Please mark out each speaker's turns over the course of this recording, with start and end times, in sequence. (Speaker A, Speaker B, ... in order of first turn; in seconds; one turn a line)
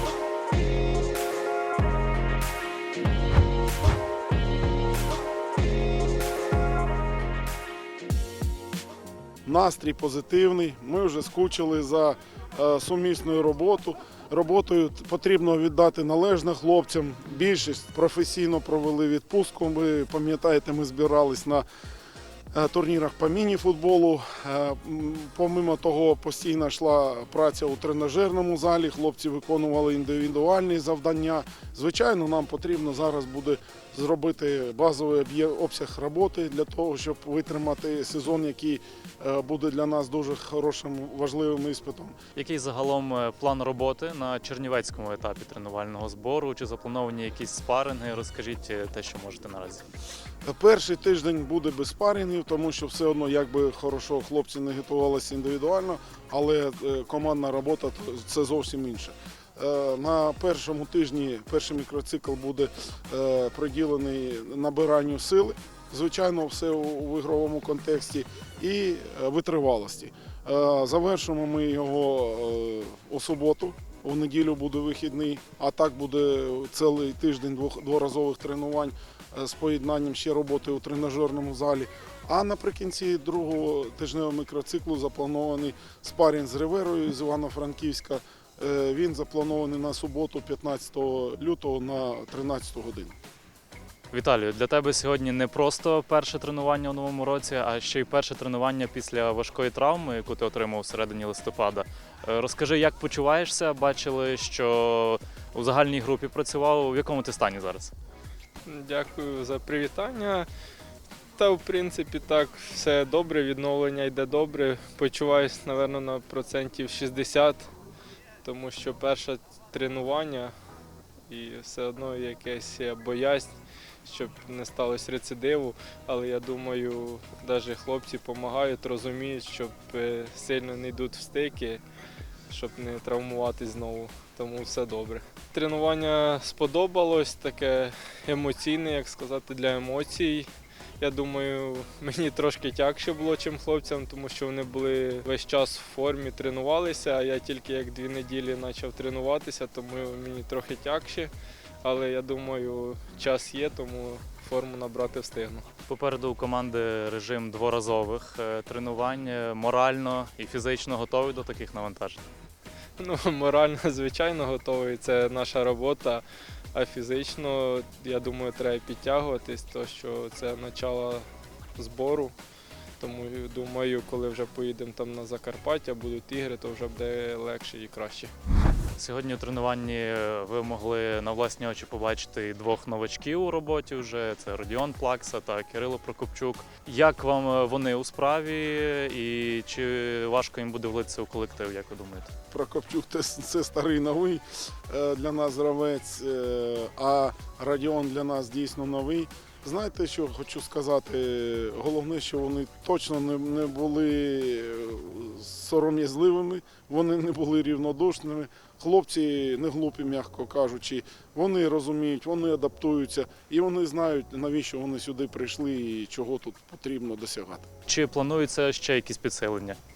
Speaker A: 9.4-21.6
Speaker A: 22.5-42.2
Speaker B: 42.3-49.9
Speaker A: 50.4-93.2
Speaker B: 94.1-107.9
Speaker C: 108.6-110.5
Speaker C: 111.3-117.7
Speaker C: 118.4-120.5
Speaker C: 121.3-123.5
Speaker C: 124.0-131.8
Speaker C: 132.5-151.3
Speaker C: 151.8-155.7
Speaker B: 155.9-162.2
Speaker C: 163.0-171.2
Speaker C: 171.8-172.3
Speaker C: 173.0-178.3
Speaker B: 179.0-192.3
Speaker A: 192.5-217.7
Speaker B: 217.9-219.8